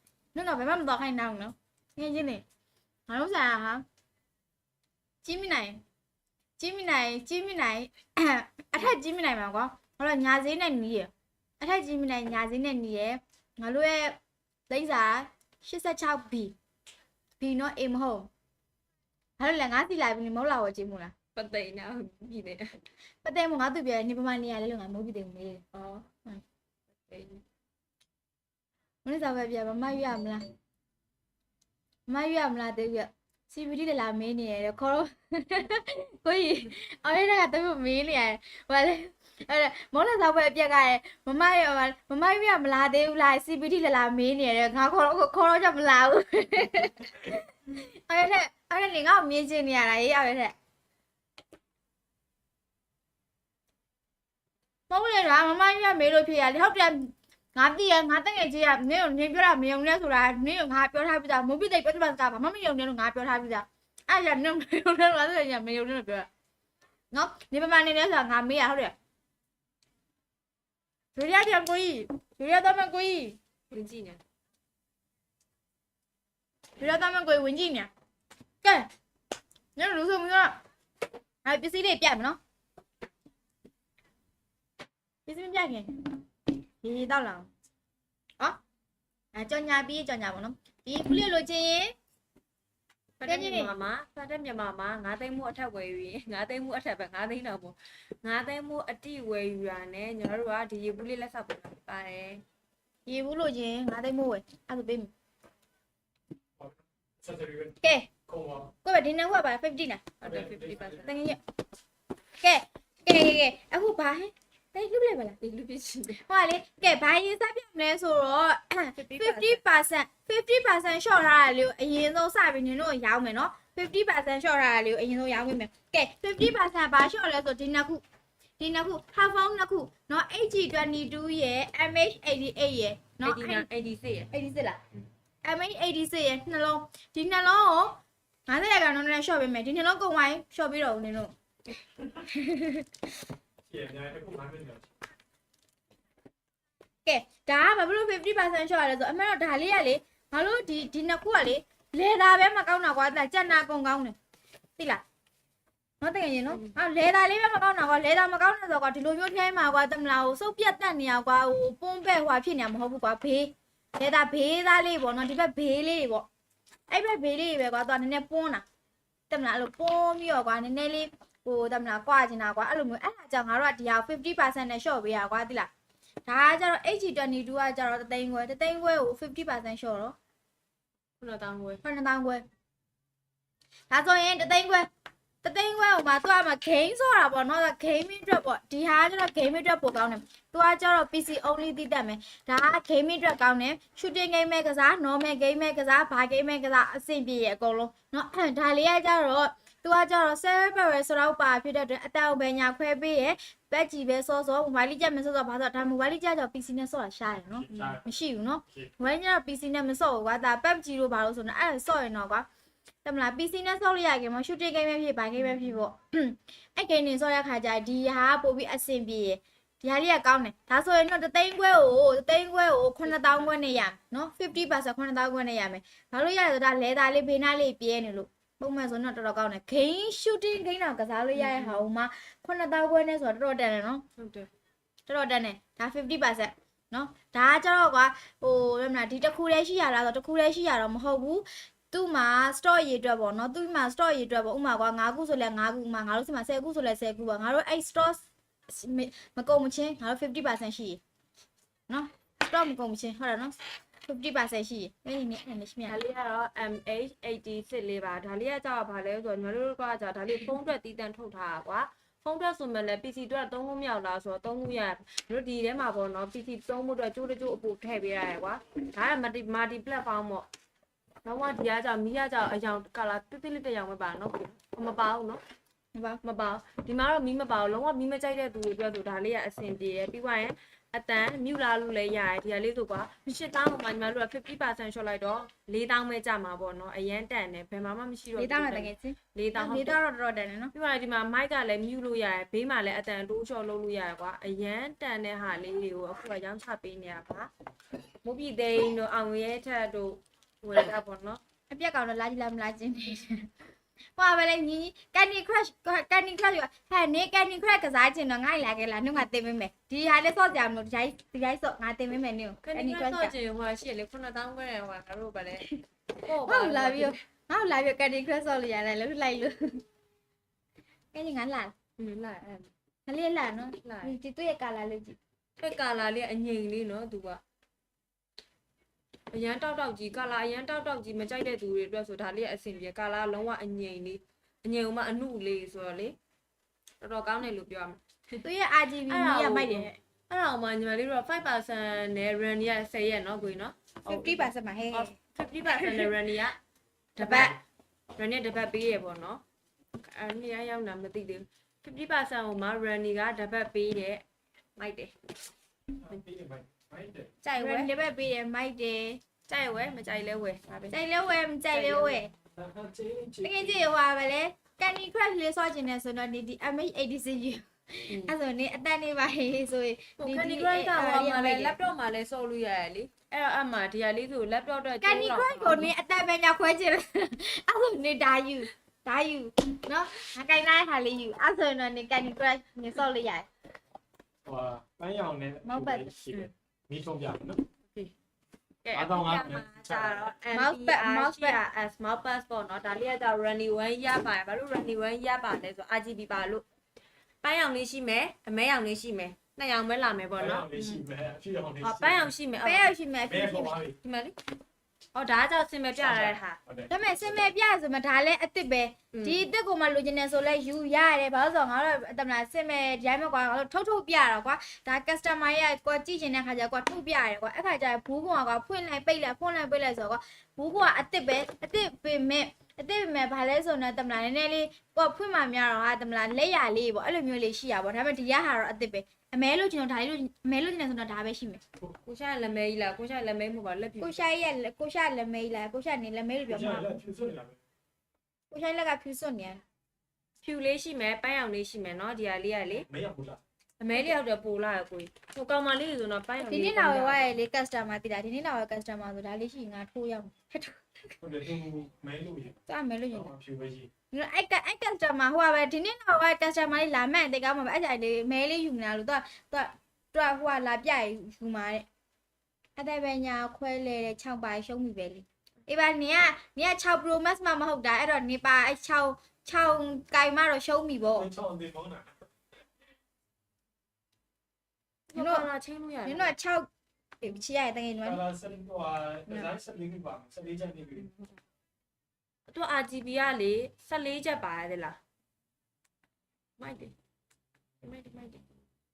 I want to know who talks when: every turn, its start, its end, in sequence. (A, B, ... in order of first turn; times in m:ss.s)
0:00.4-0:02.4 A
0:03.1-0:03.8 A
0:05.2-0:05.8 A
0:06.6-0:16.5 A
0:17.4-0:18.3 A
0:19.4-0:21.1 A
0:21.3-0:22.8 B
0:23.2-0:25.6 A
0:25.7-0:26.1 B
0:27.1-0:27.4 B
0:29.0-0:30.4 A
0:32.1-0:50.5 A
0:54.9-1:06.3 A
1:07.1-1:08.9 A
1:11.2-1:13.4 A
1:13.7-1:14.2 B
1:16.8-1:17.9 A
1:18.6-1:18.9 A
1:19.8-1:20.6 A
1:21.4-1:22.4 A
1:25.3-1:26.1 A
1:26.8-1:27.5 A
1:29.3-1:32.0 A
1:33.2-1:42.4 B
1:33.3-1:33.8 A
1:43.1-1:45.1 A
1:46.6-1:47.8 C
1:47.8-1:48.1 A
1:48.3-1:48.7 C
1:48.8-1:50.1 A
1:50.2-1:51.1 B
1:50.2-1:51.0 C
1:51.0-1:51.4 A
1:52.4-1:55.4 A
1:55.4-1:56.2 B
1:56.2-2:08.0 A
1:59.0-1:59.6 B
2:08.6-2:13.7 A
2:13.2-2:14.3 B
2:14.3-2:14.8 A
2:15.4-2:21.3 A
2:22.3-2:22.9 A
2:23.7-2:24.9 C
2:27.0-2:34.2 A
2:34.8-2:35.0 A
2:36.0-2:46.3 A
2:36.5-2:36.8 B
2:46.9-2:48.6 A
2:49.3-2:55.7 A
2:56.3-3:00.2 A
3:01.2-3:01.8 B
3:01.8-3:02.4 A
3:03.9-3:04.9 A
3:05.4-3:32.4 A
3:27.6-3:28.0 C
3:27.7-3:28.0 B
3:33.0-3:54.0 A
3:35.4-3:35.8 B
3:43.0-3:43.8 B
3:51.3-3:51.9 B
3:54.2-3:54.5 B
3:55.1-4:11.0 A
4:11.9-4:16.0 A
4:15.9-4:30.5 B
4:31.2-4:35.4 B
4:35.9-4:36.2 A
4:36.2-4:50.0 B
4:48.4-4:50.7 A
4:50.7-4:57.5 B
4:58.2-5:01.4 B
5:01.7-5:03.5 A
5:04.2-5:13.3 A
5:12.6-5:17.2 B
5:16.4-5:19.8 A
5:21.1-5:21.7 A
5:22.0-5:22.7 B
5:23.1-5:25.2 A
5:23.7-5:24.2 B
5:25.6-5:27.4 B
5:29.3-5:36.2 B
5:37.0-5:38.4 B
5:38.4-5:40.0 A
5:39.1-5:46.6 B
5:44.1-5:45.1 A
5:45.7-5:46.1 A
5:47.2-5:47.6 B
5:47.2-5:47.6 A
5:48.2-5:49.4 B
5:50.0-5:54.2 B
5:54.8-5:55.1 B
5:56.0-5:57.3 C
5:57.4-5:57.9 B
5:57.6-5:59.2 A
5:59.5-6:01.0 B
6:00.9-6:02.3 A
6:01.7-6:02.2 B
6:02.6-6:03.8 C
6:03.4-6:11.8 A
6:08.1-6:08.3 B
6:10.2-6:15.9 B
6:15.0-6:23.5 A
6:24.4-6:27.6 C
6:25.6-6:26.1 A
6:26.3-6:26.5 B
6:28.8-6:36.6 B
6:28.9-6:30.3 C
6:30.5-6:31.6 A
6:37.4-6:41.0 B
6:40.3-6:42.3 C
6:41.8-6:43.0 B
6:42.6-6:43.8 A
6:43.3-6:44.0 C
6:43.9-6:44.3 B
6:45.1-6:46.6 B
6:46.0-6:47.5 C
6:46.9-7:11.6 A
6:49.1-6:49.5 B
7:12.0-7:14.2 B
7:14.0-7:17.0 A
7:16.5-7:17.6 C
7:18.5-7:19.6 A
7:20.4-7:22.9 B
7:22.9-7:23.4 C
7:23.8-7:27.4 B
7:26.4-7:31.1 A
7:31.2-7:32.6 C
7:32.7-7:33.3 A
7:33.1-7:33.9 C
7:34.1-7:41.8 A
7:42.8-7:51.3 A
7:51.1-7:52.1 C
7:55.1-7:56.3 B
7:55.2-7:55.5 A
7:56.0-7:56.7 A
7:57.2-7:58.2 A
7:58.0-8:01.1 C
7:59.3-7:59.5 A
8:02.5-8:05.0 B
8:06.6-8:06.9 B
8:07.8-8:08.4 B